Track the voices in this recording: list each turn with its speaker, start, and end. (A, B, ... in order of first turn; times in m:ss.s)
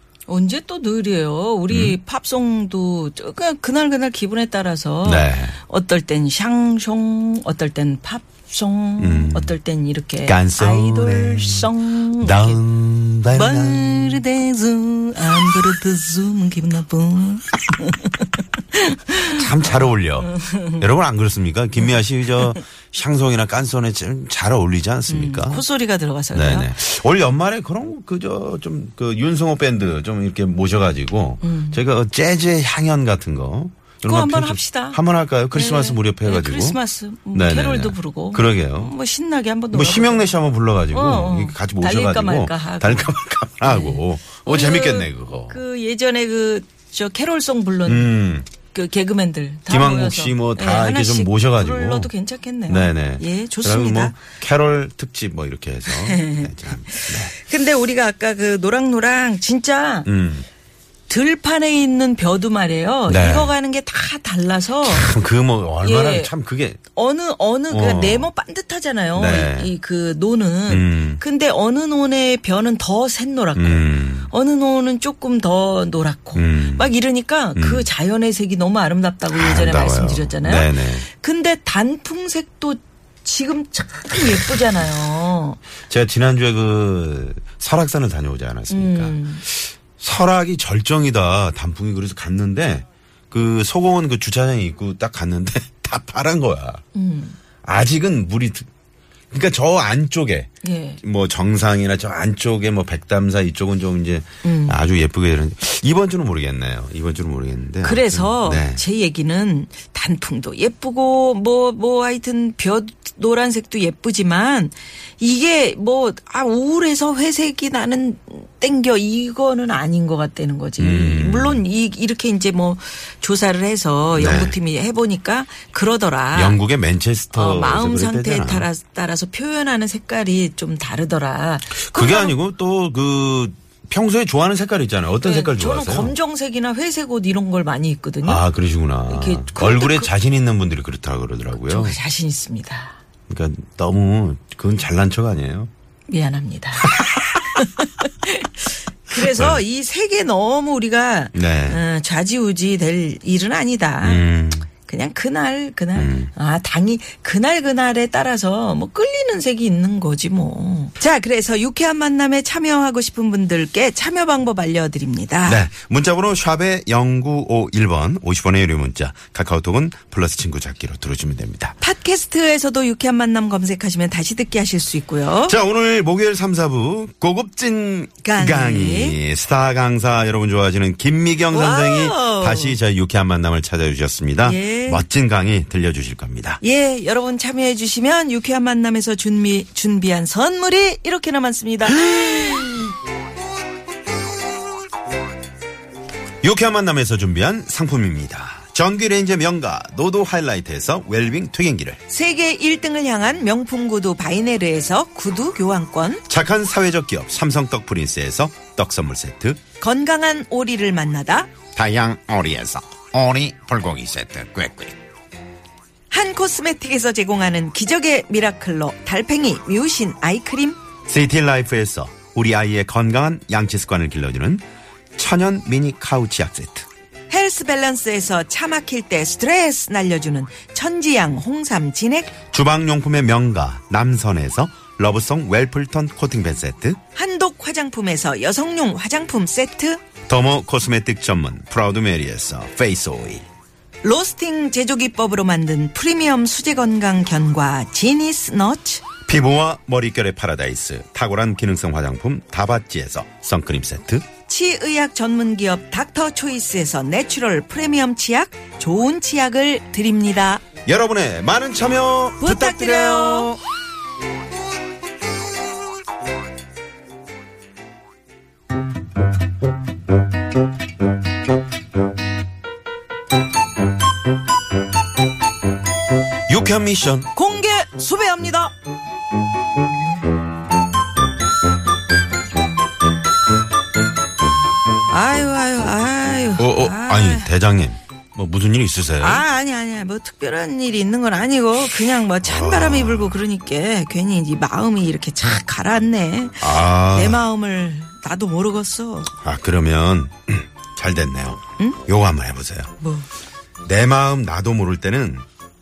0:00.3-0:12.6 A
0:01.7-0:02.0 B
0:05.0-0:05.6 B
0:09.0-0:09.6 B
0:10.2-0:14.2 B
0:13.3-0:20.8 A
0:19.2-0:25.6 B
0:25.1-0:26.7 A
0:26.3-0:36.8 B
0:31.4-0:31.8 A
0:34.0-0:35.0 A
0:35.5-0:40.3 A
0:37.3-0:38.9 B
0:39.7-0:45.6 B
0:40.9-0:54.1 A
0:47.8-0:48.5 B
0:49.7-0:52.1 B
0:52.7-0:57.4 B
0:55.9-1:00.1 A
1:00.0-1:00.4 B
1:01.1-1:05.1 A
1:03.1-1:03.5 B
1:04.8-1:06.8 B
1:05.8-1:06.3 A
1:06.9-1:25.6 A
1:07.7-1:08.3 B
1:09.1-1:09.7 B
1:10.7-1:11.2 B
1:13.6-1:14.3 B
1:16.4-1:16.9 B
1:17.6-1:17.9 B
1:19.3-1:21.0 B
1:25.9-1:36.8 B
1:28.7-1:29.4 A
1:36.9-1:37.4 A
1:37.6-1:38.7 B
1:39.3-1:48.8 B
1:40.6-1:41.0 A
1:44.4-1:44.8 A
1:47.8-2:06.6 A
2:00.8-2:01.6 B
2:04.1-2:04.6 B
2:06.3-2:08.7 B
2:07.3-2:12.4 A
2:11.7-2:16.1 B
2:15.2-2:18.4 A
2:18.2-2:22.0 B
2:19.1-2:20.1 A
2:21.6-2:23.0 A
2:23.3-2:25.7 B
2:26.1-2:34.2 A
2:26.8-2:27.2 B
2:29.1-2:29.6 B
2:31.3-2:31.8 B
2:34.0-2:34.7 B
2:34.8-2:45.6 A
2:36.0-2:36.3 B
2:45.4-2:51.7 B
2:51.8-2:55.6 A
2:55.4-3:06.6 B
2:58.2-2:59.2 A
3:01.5-3:02.8 A
3:04.4-3:05.0 A
3:06.6-3:12.2 A
3:12.0-3:12.9 B
3:16.4-3:22.0 B
3:22.1-3:26.2 A
3:26.3-3:29.6 B
3:29.8-3:31.5 A
3:31.7-3:34.9 B
3:36.1-3:40.8 A
3:41.0-3:44.6 B
3:45.2-3:46.9 B
3:47.3-3:52.3 A
3:52.5-3:57.0 B
3:57.1-4:00.0 A
4:00.3-4:03.4 B
4:04.0-4:09.0 A
4:09.2-4:14.2 B
4:14.5-4:20.6 A
4:20.8-4:23.6 B
4:22.4-4:23.6 A
4:36.5-4:37.3 B
4:37.3-4:38.7 A
4:45.1-4:47.5 A
4:46.6-4:49.4 B
4:49.2-4:59.3 A
4:52.4-4:53.4 B
4:56.6-4:57.4 B
4:59.4-5:02.9 B
5:03.0-5:03.3 A
5:03.8-5:05.4 B